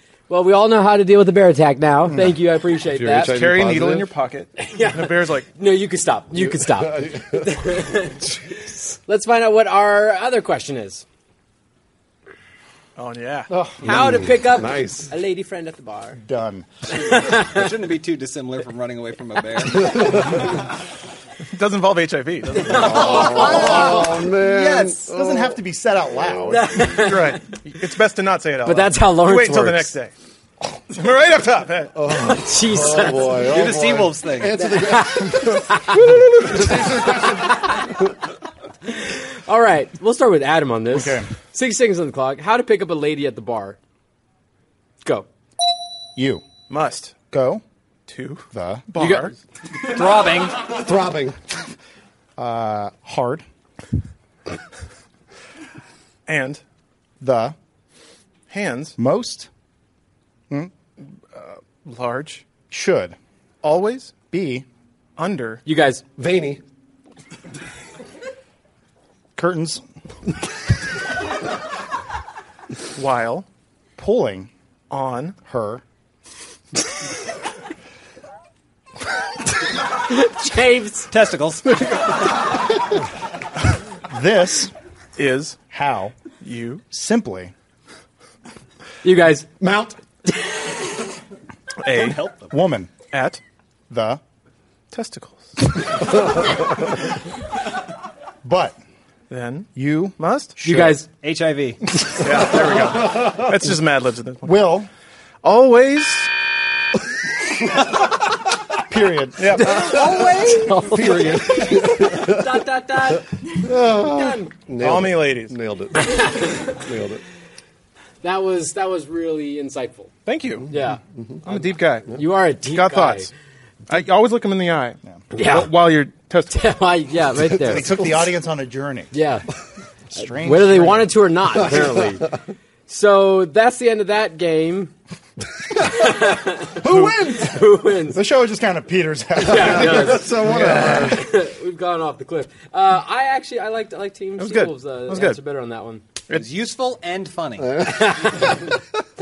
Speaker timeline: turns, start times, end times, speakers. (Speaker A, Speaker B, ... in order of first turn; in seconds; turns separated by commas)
Speaker A: 0.3-3.4, Speaker B: 2.9-4.1, Speaker C: 3.2-5.5, Speaker A: 4.6-11.0, Speaker B: 6.3-7.8, Speaker C: 13.0-13.5, Speaker B: 13.5-15.1, Speaker A: 13.8-16.2, Speaker D: 16.2-16.6, Speaker E: 17.0-20.4, Speaker A: 17.1-17.6, Speaker B: 19.8-20.3, Speaker C: 21.5-23.5, Speaker A: 22.5-24.2, Speaker B: 22.8-25.6, Speaker D: 22.9-24.0, Speaker E: 23.1-25.1, Speaker D: 25.1-26.9, Speaker B: 26.2-26.6, Speaker A: 26.5-27.4, Speaker C: 26.9-30.1, Speaker A: 28.6-29.9, Speaker C: 30.9-32.0, Speaker B: 31.9-38.0, Speaker A: 32.1-33.7, Speaker E: 33.4-34.6, Speaker A: 34.6-36.9, Speaker A: 39.0-43.8, Speaker D: 40.9-41.2, Speaker D: 46.1-46.4, Speaker C: 46.7-47.2, Speaker D: 47.3-47.6, Speaker C: 48.1-49.3, Speaker D: 48.5-48.9, Speaker A: 49.0-49.3, Speaker E: 49.8-50.6, Speaker B: 50.6-51.4, Speaker D: 52.4-53.4, Speaker C: 56.3-56.6, Speaker D: 57.2-57.5, Speaker C: 58.5-58.9, Speaker D: 59.0-59.5, Speaker C: 61.3-62.5, Speaker D: 62.7-63.1, Speaker C: 63.6-64.2, Speaker D: 64.3-64.6, Speaker C: 65.2-65.6, Speaker A: 65.7-66.0, Speaker B: 66.2-66.6, Speaker D: 69.3-69.8, Speaker C: 72.9-73.4, Speaker D: 74.0-74.5, Speaker C: 74.9-75.3, Speaker D: 75.4-75.8, Speaker A: 80.1-81.1, Speaker E: 81.1-81.9, Speaker D: 84.1-84.7, Speaker C: 85.2-85.6, Speaker D: 85.7-86.1, Speaker C: 86.4-86.8, Speaker D: 86.9-87.5, Speaker A: 89.0-89.5, Speaker B: 89.6-90.0, Speaker C: 91.8-92.3, Speaker E: 91.9-92.5, Speaker D: 92.5-92.9, Speaker C: 93.0-93.4, Speaker D: 93.9-94.2, Speaker C: 94.9-95.7, Speaker D: 98.4-98.8, Speaker C: 99.3-100.5, Speaker D: 99.7-101.0, Speaker A: 100.6-101.1, Speaker E: 101.2-101.8, Speaker C: 102.2-104.7, Speaker D: 104.4-104.9, Speaker C: 105.4-106.3, Speaker D: 108.9-109.7, Speaker C: 109.4-109.8, Speaker E: 109.6-111.2, Speaker B: 109.7-112.6, Speaker A: 110.6-114.5, Speaker B: 113.6-117.2, Speaker C: 114.8-115.5, Speaker A: 116.1-116.7, Speaker A: 118.2-120.1, Speaker C: 120.2-120.7, Speaker A: 120.7-121.0, Speaker B: 121.2-121.4, Speaker C: 121.4-123.3, Speaker A: 122.1-123.3, Speaker C: 123.9-126.6, Speaker A: 125.3-125.7, Speaker A: 126.5-127.9, Speaker D: 127.6-129.1, Speaker A: 129.1-129.4, Speaker D: 130.1-131.1, Speaker A: 130.2-132.3, Speaker B: 131.6-132.0, Speaker A: 132.9-134.9, Speaker A: 135.8-138.2, Speaker B: 136.7-137.7, Speaker D: 138.1-140.8, Speaker A: 139.4-146.0, Speaker B: 139.4-141.2, Speaker C: 140.5-141.1, Speaker C: 144.4-145.4, Speaker E: 146.3-148.0, Speaker B: 147.6-148.4, Speaker A: 147.8-148.6